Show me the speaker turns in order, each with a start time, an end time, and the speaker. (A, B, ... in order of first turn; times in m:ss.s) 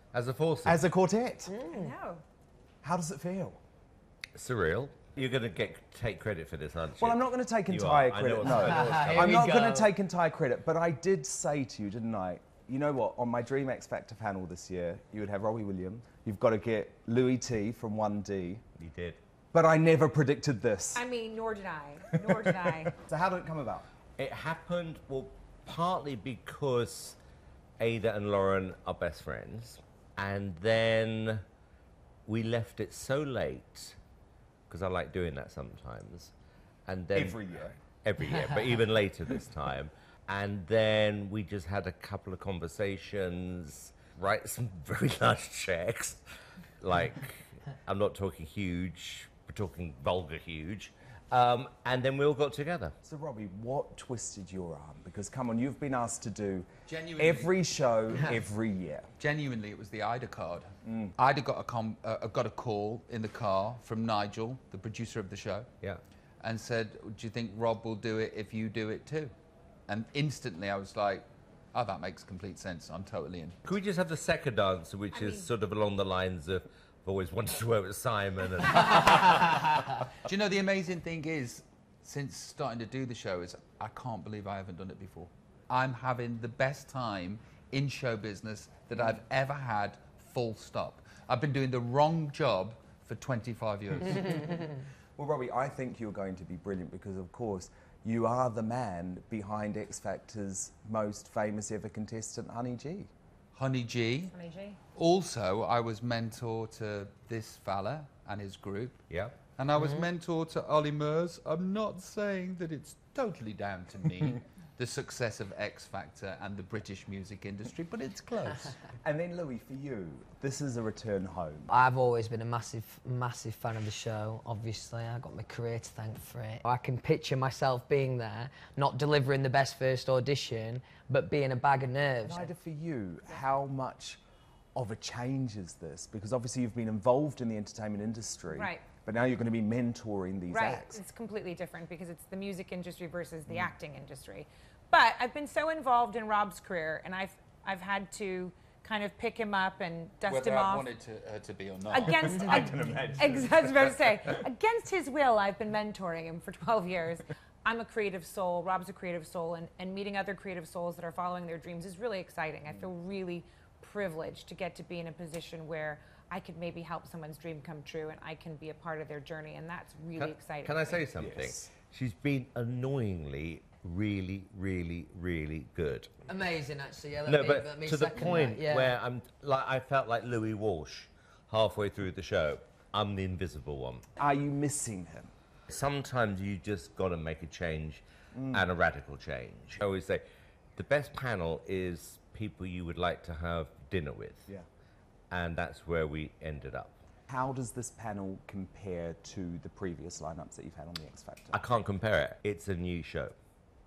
0:00.1-0:00.9 A
0:00.6-0:01.5 B
0:01.5-0:01.9 C
0:01.7-0:02.2 D
0:02.8-0:03.6 B
0:04.4-0:09.5 A
0:07.0-0:18.6 B
0:08.5-0:09.9 C
0:18.8-0:19.2 A
0:19.5-0:21.1 B
0:21.0-0:23.0 D
0:23.0-0:23.9 B
0:24.2-0:27.2 A
0:27.8-0:31.4 A
0:32.3-0:34.0 A
0:34.7-0:36.3 A
0:36.9-0:37.4 A
0:37.2-0:37.8 B
0:38.0-0:46.2 A
0:46.8-0:52.9 A
0:53.0-0:59.1 B
0:56.9-0:57.5 E
0:59.2-1:05.7 E
1:00.8-1:01.1 B
1:06.4-1:09.3 E
1:09.9-1:13.6 E
1:13.6-1:20.0 A
1:15.1-1:15.5 D
1:20.2-1:34.7 E
1:35.2-1:43.1 B
1:43.5-1:44.3 E
1:44.3-1:44.8 D
1:44.9-1:58.8 E
1:49.1-1:49.4 A
1:59.0-2:01.7 B
2:01.7-2:12.5 C
2:12.2-2:14.2 B
2:14.8-2:21.0 B
2:18.5-2:18.8 D
2:20.5-2:30.9 D
2:30.3-2:32.4 E
2:31.9-2:51.1 D
2:32.2-2:33.1 C
2:32.4-2:33.5 B
2:50.2-2:56.1 A
2:51.2-2:51.7 B
2:56.3-2:59.0 C
2:57.3-3:04.0 A
3:04.2-3:05.3 B
3:05.7-3:10.2 A
3:08.3-3:08.6 B
3:10.8-3:14.5 A
3:15.3-3:17.0 A
3:17.3-3:21.6 B
3:21.5-3:23.3 A